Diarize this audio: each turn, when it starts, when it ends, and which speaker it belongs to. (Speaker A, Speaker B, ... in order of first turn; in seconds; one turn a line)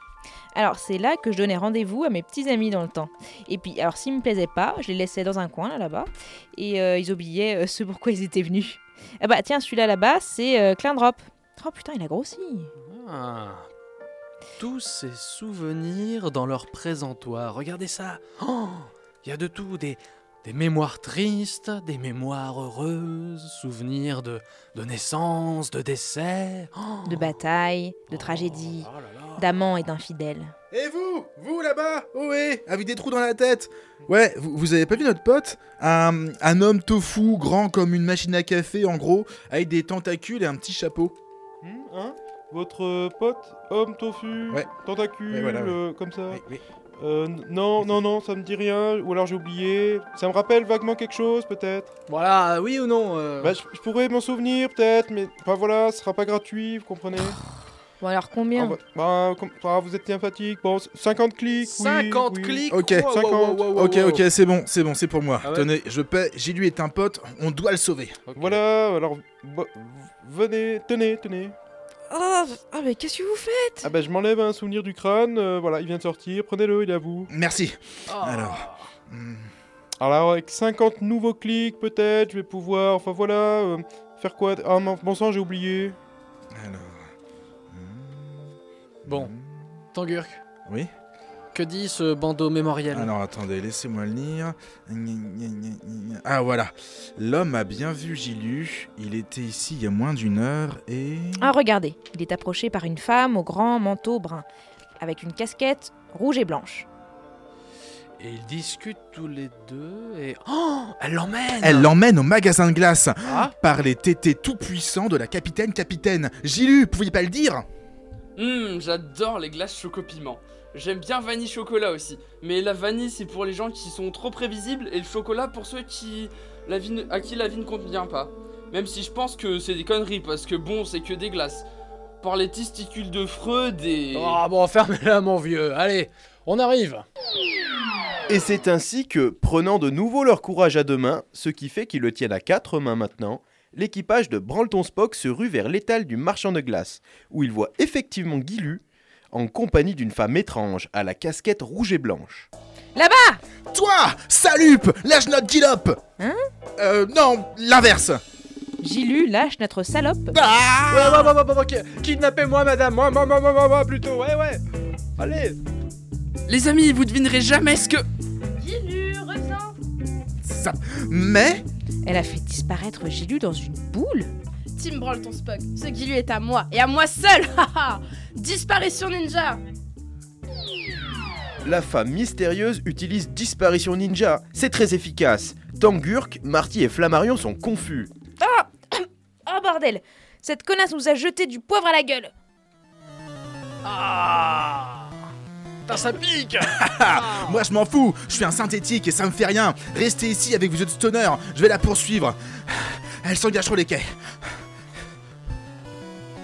Speaker A: 0.5-12.7
Speaker B: 12.8-13.7
Speaker B: 14.6-27.3
Speaker A: 27.0-30.5
Speaker B: 28.1-29.5
Speaker C: 30.7-41.1
Speaker D: 41.6-46.4
Speaker C: 45.3-45.8
Speaker C: 46.3-46.6
Speaker D: 47.0-51.9
Speaker B: 52.1-53.6
Speaker D: 53.4-57.4
Speaker A: 58.0-58.8
Speaker D: 58.5-63.7
Speaker B: 61.6-64.2
Speaker C: 62.7-63.1
Speaker C: 63.6-68.2
Speaker B: 65.4-65.7
Speaker B: 68.3-68.6
Speaker D: 68.3-71.5
Speaker A: 72.1-73.9
Speaker D: 73.8-77.3
Speaker C: 77.3-79.5
Speaker B: 78.1-78.9
Speaker D: 80.0-86.0
Speaker C: 86.5-87.1
Speaker C: 87.7-88.5
Speaker B: 89.0-89.3
Speaker C: 89.0-89.4
Speaker B: 89.9-90.4
Speaker B: 91.5-93.1
Speaker C: 92.9-101.5
Speaker A: 101.4-104.5
Speaker A: 105.0-106.9
Speaker B: 108.2-111.9
Speaker C: 111.6-117.7
Speaker B: 113.2-113.5
Speaker E: 118.4-131.6
Speaker E: 132.2-134.4
Speaker B: 134.1-137.0
Speaker F: 138.3-152.5
Speaker A: 152.9-153.4
Speaker C: 153.7-156.0
Speaker C: 156.8-158.2
Speaker A: 158.8-160.4
Speaker C: 160.3-161.3
Speaker B: 160.9-164.6
Speaker B: 165.2-165.6
Speaker E: 166.5-168.0
Speaker G: 168.6-169.7
Speaker C: 170.4-171.6
Speaker A: 172.1-174.3
Speaker G: 174.8-179.6
Speaker F: 181.6-188.1
Speaker A: 188.4-192.3
Speaker B: 193.8-195.1
Speaker B: 195.9-197.6
Speaker C: 196.6-204.6